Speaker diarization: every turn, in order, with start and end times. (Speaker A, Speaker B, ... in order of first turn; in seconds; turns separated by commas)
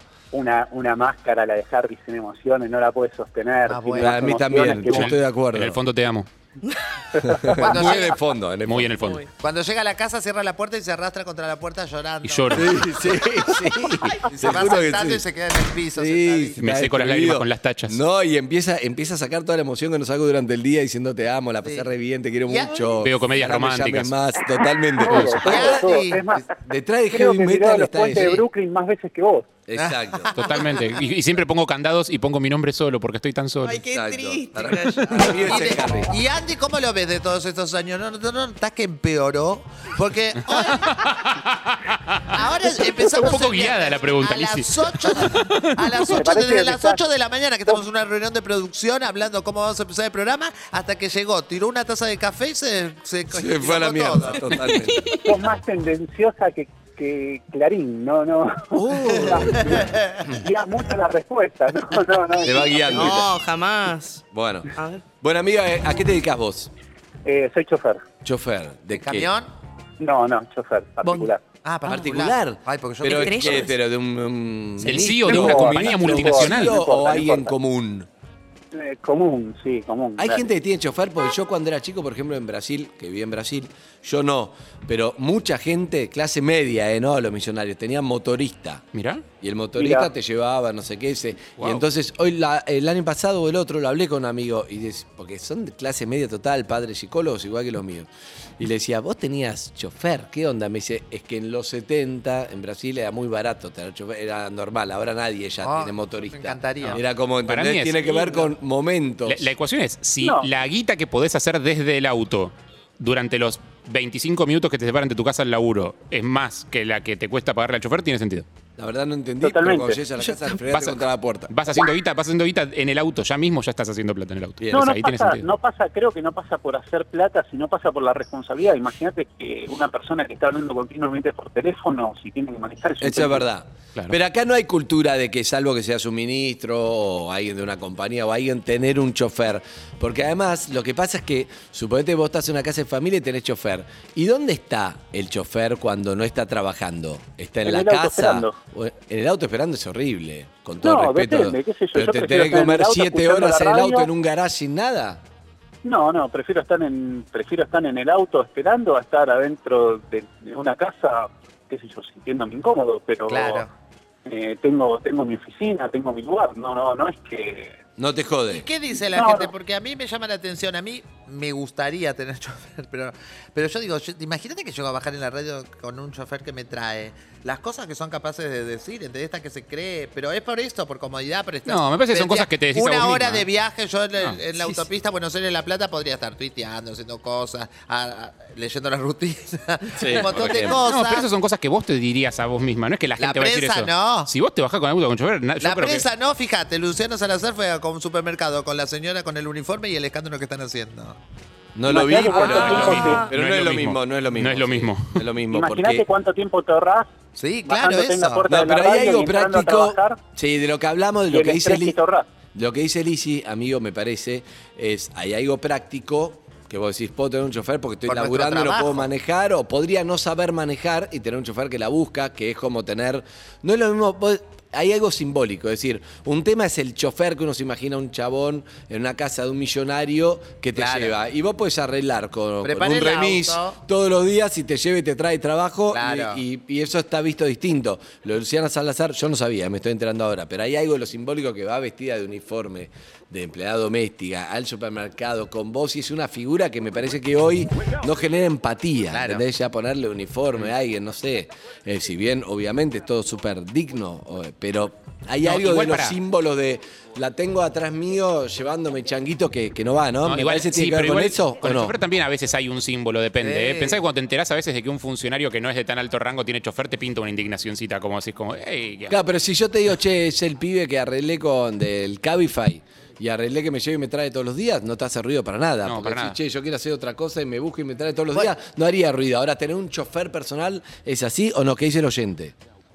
Speaker A: 0.3-5.2, Speaker B: 3.7-4.3, Speaker C: 4.0-5.8, Speaker D: 4.9-6.3, Speaker A: 7.1-8.0, Speaker C: 7.2-9.1, Speaker B: 7.5-8.2, Speaker D: 8.7-9.2, Speaker B: 9.4-13.3, Speaker D: 12.2-12.8, Speaker C: 12.5-15.2, Speaker B: 14.2-16.6, Speaker C: 15.9-28.5, Speaker D: 16.6-18.0, Speaker B: 22.5-23.0, Speaker D: 23.0-24.1, Speaker A: 25.1-26.5, Speaker D: 25.1-25.5, Speaker B: 25.4-26.2, Speaker A: 27.1-29.6, Speaker C: 29.7-30.5, Speaker B: 29.8-30.9, Speaker D: 30.4-33.8, Speaker E: 33.6-35.7, Speaker C: 33.9-36.1, Speaker B: 35.1-41.3, Speaker D: 40.5-45.9, Speaker B: 42.3-54.5, Speaker A: 46.1-47.0, Speaker C: 53.3-55.1, Speaker E: 54.5-55.3, Speaker A: 55.1-63.2, Speaker C: 58.7-59.9, Speaker B: 59.1-60.3, Speaker C: 62.4-63.3, Speaker E: 62.8-64.2, Speaker C: 64.3-64.7, Speaker E: 64.8-65.0, Speaker C: 65.2-66.7, Speaker A: 67.2-68.0, Speaker C: 68.2-69.3, Speaker B: 69.0-69.5, Speaker A: 70.0-71.5, Speaker E: 71.0-71.3, Speaker B: 71.6-73.7, Speaker C: 71.9-78.1, Speaker E: 73.0-73.7, Speaker D: 74.8-76.8, Speaker A: 75.2-77.5, Speaker A: 78.7-80.4, Speaker C: 80.2-88.8, Speaker D: 88.9-89.2, Speaker C: 89.4-109.5, Speaker A: 89.8-90.1, Speaker D: 91.6-91.8, Speaker B: 105.6-107.0, Speaker D: 106.8-108.4, Speaker D: 109.3-118.5, Speaker A: 110.2-110.5, Speaker C: 118.8-121.8, Speaker A: 119.4-120.0, Speaker E: 120.2-120.6, Speaker D: 120.7-125.5, Speaker C: 124.6-124.9, Speaker A: 124.7-133.4, Speaker C: 133.0-155.2, Speaker A: 147.6-148.6, Speaker A: 150.8-154.1, Speaker A: 155.8-163.7, Speaker B: 163.3-163.7, Speaker A: 164.2-167.8, Speaker C: 168.0-168.7, Speaker B: 168.5-191.3, Speaker A: 169.1-169.5, Speaker D: 181.7-183.5, Speaker C: 189.9-190.8, Speaker D: 190.8-196.1, Speaker B: 193.2-194.3, Speaker B: 195.6-201.2, Speaker C: 201.8-206.1, Speaker A: 201.9-203.3, Speaker D: 202.4-205.3, Speaker A: 205.5-207.1, Speaker B: 207.4-208.5, Speaker A: 207.6-210.2, Speaker C: 208.5-212.0, Speaker A: 211.3-212.3, Speaker C: 212.6-262.0, Speaker B: 218.1-219.1, Speaker B: 230.8-231.1, Speaker B: 232.6-233.8, Speaker B: 235.9-236.4, Speaker B: 249.1-249.4, Speaker D: 255.4-256.2, Speaker D: 260.2-269.2, Speaker B: 263.4-264.0, Speaker C: 269.1-282.6, Speaker D: 275.9-276.4